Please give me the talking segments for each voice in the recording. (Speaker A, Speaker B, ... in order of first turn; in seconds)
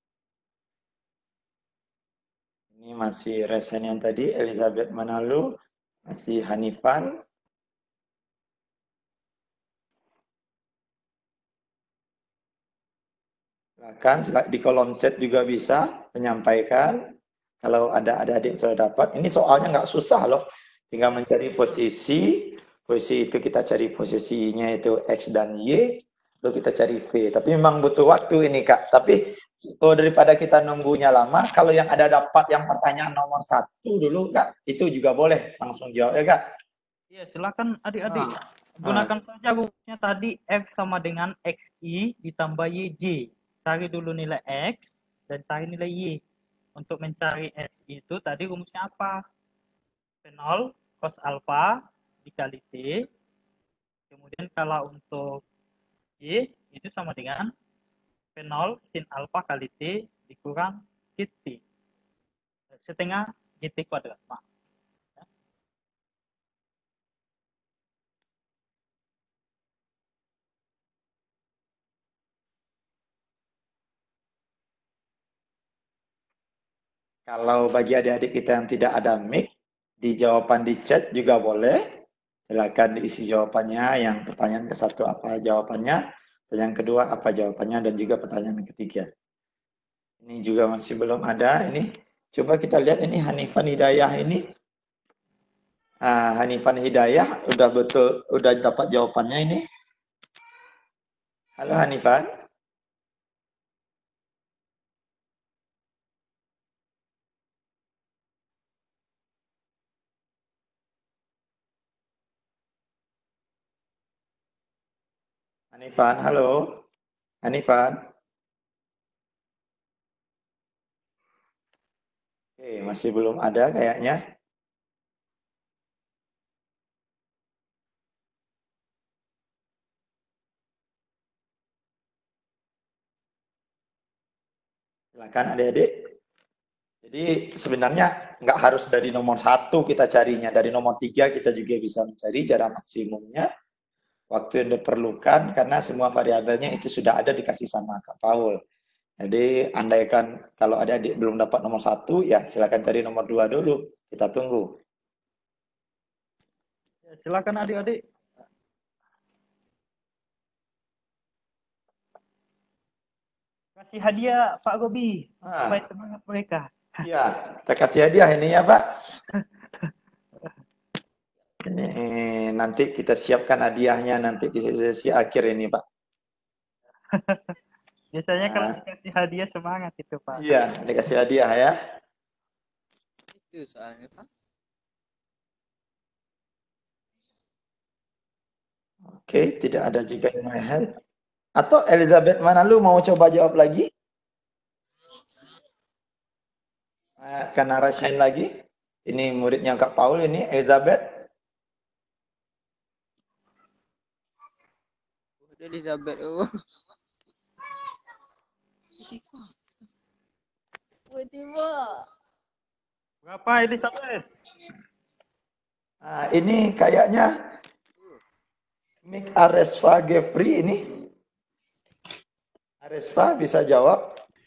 Speaker A: 2.8-5.5, 6.1-7.1, 13.8-17.0, 17.6-25.9, 26.4-36.4, 38.1-38.3, 38.8-39.1, 77.3-79.5, 80.0-81.8, 82.5-89.1, 90.2-94.4, 96.0-99.6, 101.6-102.3, 115.7-116.8, 117.4-118.0, 122.6-124.2, 135.2-136.1, 137.0-143.5, 144.3-148.6, 149.2-154.7, 165.4-165.8, 167.0-168.8, 171.6-175.8, 178.4-178.7, 180.4-181.7, 189.1-190.9, 191.6-193.8, 197.2-198.5, 199.1-201.0, 216.0-217.3, 219.1-221.0, 222.8-224.0
Speaker B: 37.1-46.2, 46.8-49.2, 50.2-53.0, 54.1-55.4, 56.2-57.5, 58.4-61.6, 62.7-64.4, 157.1-158.0, 163.8-167.0, 169.3-170.5, 177.1-177.6, 178.1-180.6, 213.2-214.2
Speaker C: 183.3-184.3, 205.4-206.4, 209.0-209.4, 211.1-212.0